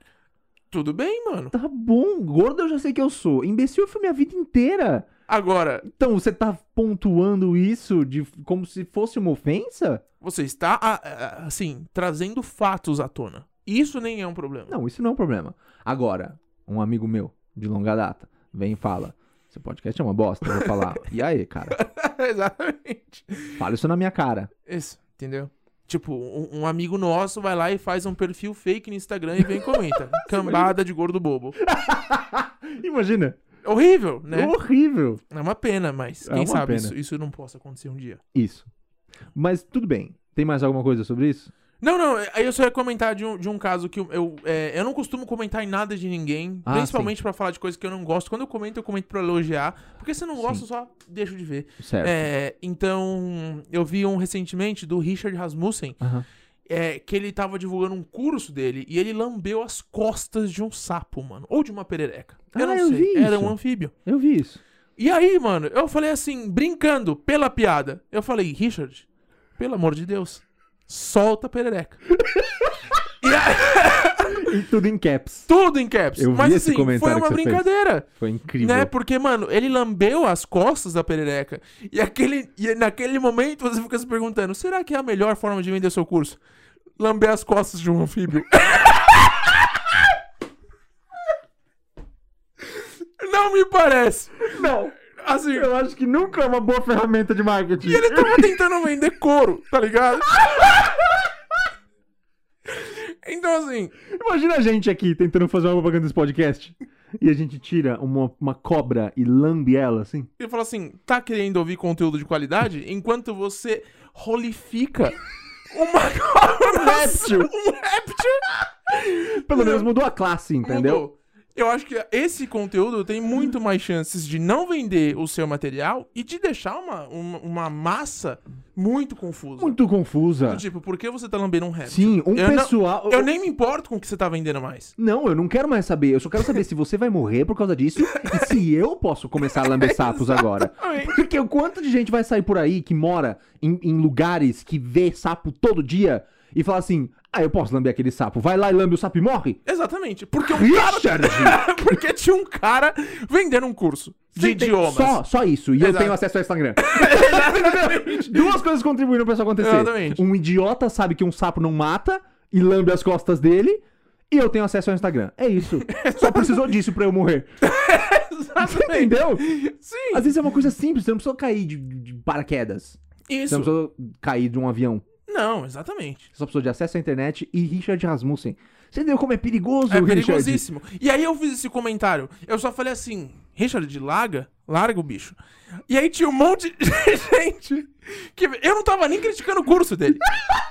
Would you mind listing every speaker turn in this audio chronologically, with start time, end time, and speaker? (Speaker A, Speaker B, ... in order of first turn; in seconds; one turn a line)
Speaker A: 0.7-1.5
Speaker B: 1.5-5.1
Speaker A: 5.3-5.8
Speaker B: 5.8-10.0
Speaker A: 10.2-14.8
Speaker B: 14.7-21.8
Speaker A: 20.5-20.8
Speaker A: 21.7-23.6
Speaker B: 23.6-24.5
Speaker A: 24.7-31.6
Speaker B: 29.5-30.7
Speaker B: 31.6-33.4
Speaker A: 33.6-34.5
Speaker B: 34.3-35.2
Speaker A: 35.3-38.2
Speaker B: 36.2-36.9
Speaker B: 38.3-38.7
Speaker B: 39.4-41.5
Speaker A: 41.8-56.0
Speaker B: 46.7-47.1
Speaker B: 50.4-50.6
Speaker B: 51.8-52.3
Speaker B: 56.0-56.3
Speaker A: 56.7-63.9
Speaker B: 62.5-64.6
Speaker A: 65.0-69.1
Speaker A: 69.6-72.0
Speaker B: 72.2-72.8
Speaker A: 73.2-74.5
Speaker B: 74.3-75.5
Speaker A: 75.5-78.1
Speaker B: 76.2-78.9
Speaker A: 78.6-86.4
Speaker A: 87.0-89.7
Speaker A: 92.7-95.7
Speaker B: 94.5-95.0
Speaker B: 95.5-98.5
Speaker A: 97.8-100.8
Speaker B: 100.4-101.1
Speaker A: 102.7-103.9
Speaker B: 104.1-110.3
Speaker A: 110.4-115.2
Speaker A: 115.7-119.9
Speaker B: 116.6-117.5
Speaker B: 119.0-121.0
Speaker A: 120.6-129.8
Speaker B: 129.6-130.6
Speaker A: 130.4-134.9
Speaker B: 131.8-133.3
Speaker B: 135.0-149.6
Speaker A: 138.1-138.6
Speaker A: 139.5-141.2
Speaker A: 149.7-155.2
Speaker B: 150.4-151.6
Speaker B: 154.3-167.5
Speaker A: 155.8-156.2
Speaker A: 156.8-158.6
Speaker A: 159.6-160.2
Speaker A: 165.8-166.7
Speaker A: 167.6-170.3
Speaker B: 168.6-169.5
Speaker B: 170.1-175.1
Speaker A: 173.3-173.7
Speaker A: 175.3-176.3
Speaker B: 176.3-180.6
Speaker A: 179.9-190.3